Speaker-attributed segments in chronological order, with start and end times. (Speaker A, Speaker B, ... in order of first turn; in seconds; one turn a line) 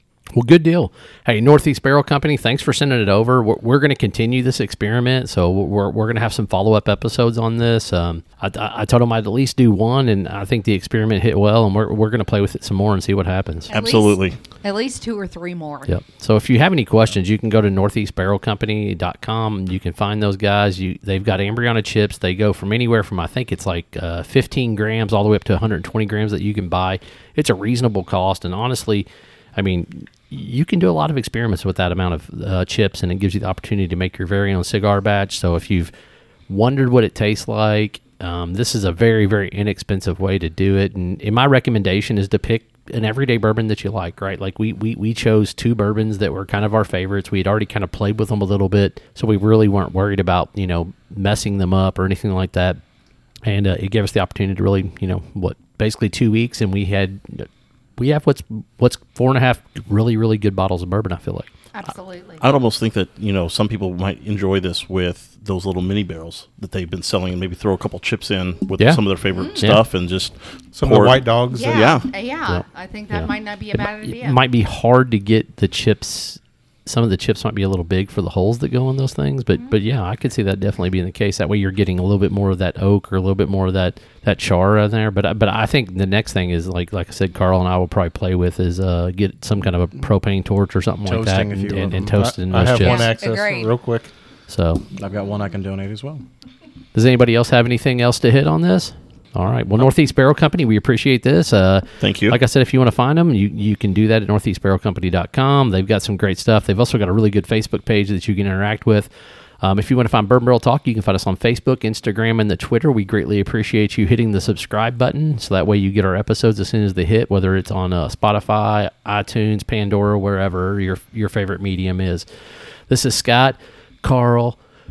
Speaker A: 0.3-13.7
Speaker B: 13.7-15.9
Speaker C: 13.7-14.4
Speaker A: 15.9-35.9
Speaker A: 36.5-52.8
Speaker A: 53.4-61.5
Speaker B: 61.7-62.5
Speaker C: 62.4-72.1
Speaker B: 69.3-69.7
Speaker D: 70.8-72.0
Speaker B: 71.5-74.4
Speaker A: 72.5-93.2
Speaker E: 91.0-92.2
Speaker D: 92.2-94.1
Speaker B: 92.7-93.8
Speaker A: 94.5-94.8
Speaker E: 95.0-96.2
Speaker A: 96.9-109.1
Speaker C: 102.0-102.4
Speaker A: 109.6-122.3
Speaker A: 122.9-124.6